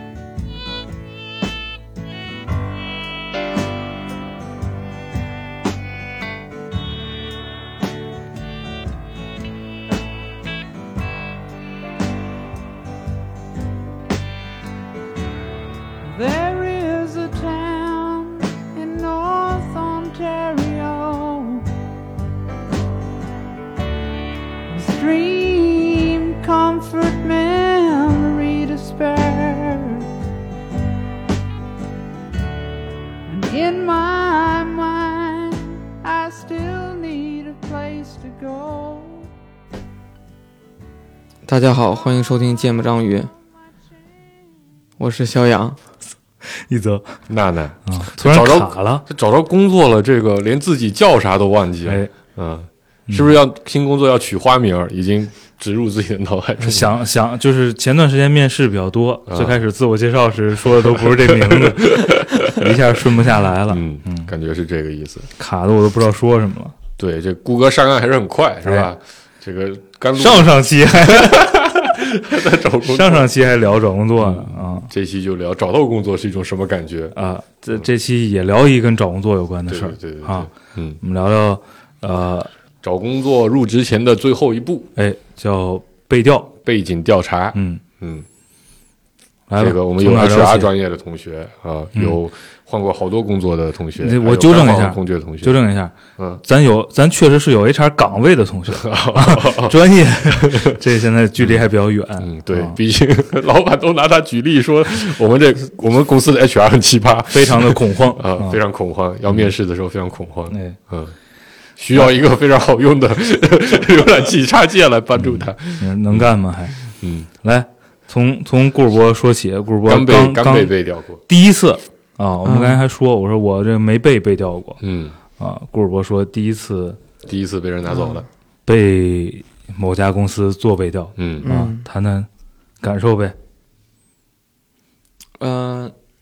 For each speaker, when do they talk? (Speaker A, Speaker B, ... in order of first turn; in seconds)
Speaker A: 16.0-21.7, 24.7-30.1, 33.3-39.3
Speaker B: 41.5-43.3, 45.0-45.8, 122.4-122.8, 127.9-128.2, 131.4-131.9, 135.4-135.9
Speaker C: 46.6-47.0, 47.9-49.0, 53.1-53.4, 56.6-64.3, 65.4-66.8, 70.2-71.6, 72.8-74.9, 77.2-82.5, 85.0-86.5, 87.5-87.8, 89.5-90.7, 94.0-102.8, 107.3-108.6, 110.5-110.8, 115.2-116.8, 117.4-120.7, 121.3-124.8, 125.4-127.0, 128.7-132.3, 132.8-133.3
Speaker D: 47.3-57.0, 59.3-59.6, 60.8-62.7, 63.7-65.3, 67.0-73.3, 74.2-77.1, 79.7-81.0, 82.8-84.9, 86.7-88.3, 89.6-95.6, 98.7-99.8, 100.4-100.8, 101.4-101.7, 102.2-111.1, 111.8-116.3, 117.0-117.3, 119.9-121.2, 124.8-125.2, 127.2-128.3, 131.2-131.5